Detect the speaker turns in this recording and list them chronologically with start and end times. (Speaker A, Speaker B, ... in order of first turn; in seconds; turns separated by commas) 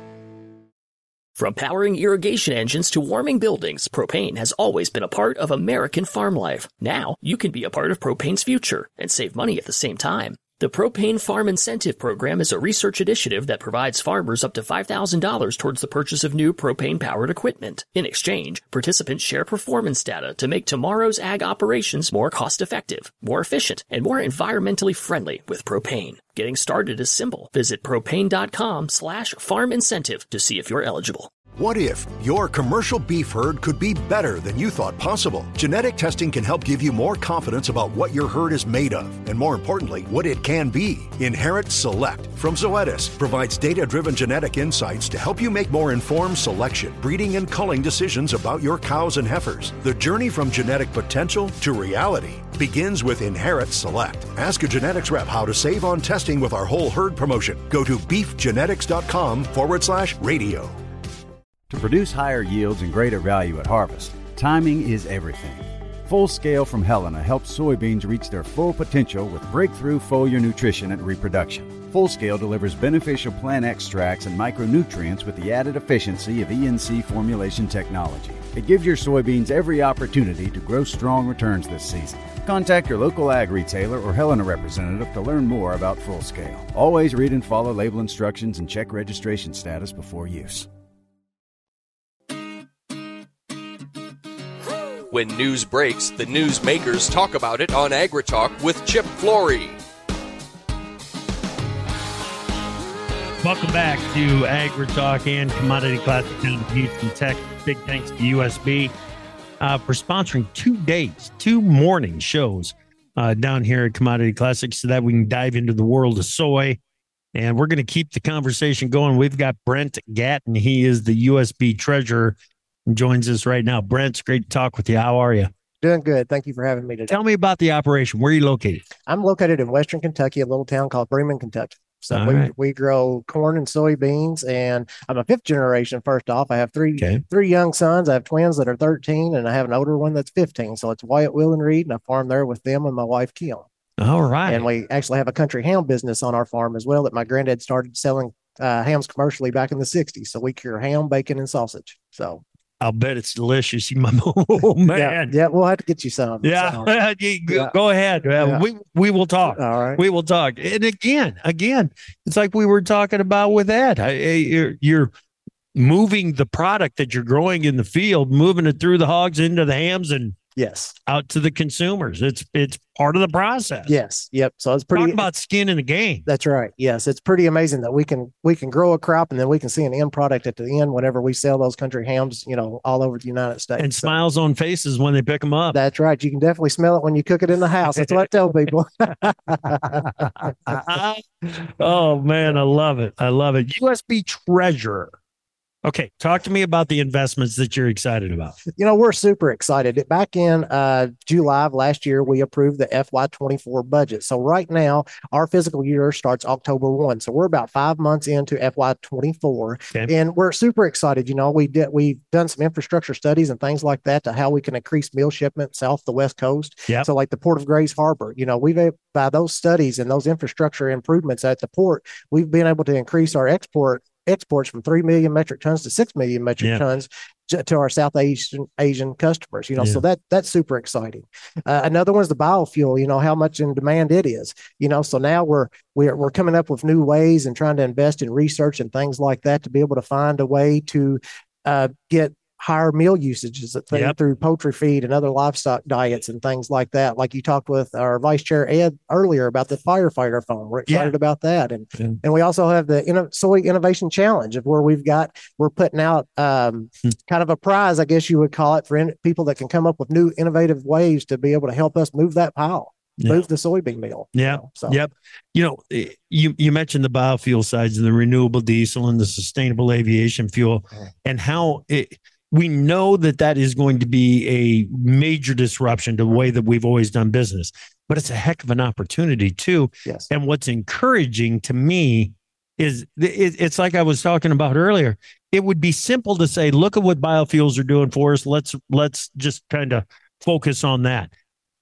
Speaker A: 1.4-31.3, Speaker B: 31.6-60.8, Speaker C: 61.7-90.7, Speaker D: 95.1-99.8, Speaker E: 103.4-108.9, Speaker E: 109.6-116.8, Speaker E: 117.3-125.5, Speaker F: 125.8-127.1, Speaker E: 127.1-128.8, Speaker F: 129.1-143.7, Speaker E: 132.1-132.5, Speaker E: 137.0-137.2, Speaker E: 144.0-144.7, Speaker F: 144.4-152.4, Speaker E: 152.8-155.3, Speaker F: 154.9-156.9, Speaker E: 156.4-165.1, Speaker F: 158.4-158.6, Speaker F: 159.4-160.0, Speaker E: 165.7-170.4, Speaker F: 170.6-170.9, Speaker E: 171.1-173.9, Speaker F: 173.9-175.2, Speaker E: 174.9-176.2, Speaker F: 176.3-184.1, Speaker E: 183.8-185.8, Speaker F: 185.7-190.8, Speaker E: 189.7-195.1, Speaker E: 195.8-198.6, Speaker F: 198.8-265.0, Speaker E: 263.2-263.4, Speaker E: 264.3-291.3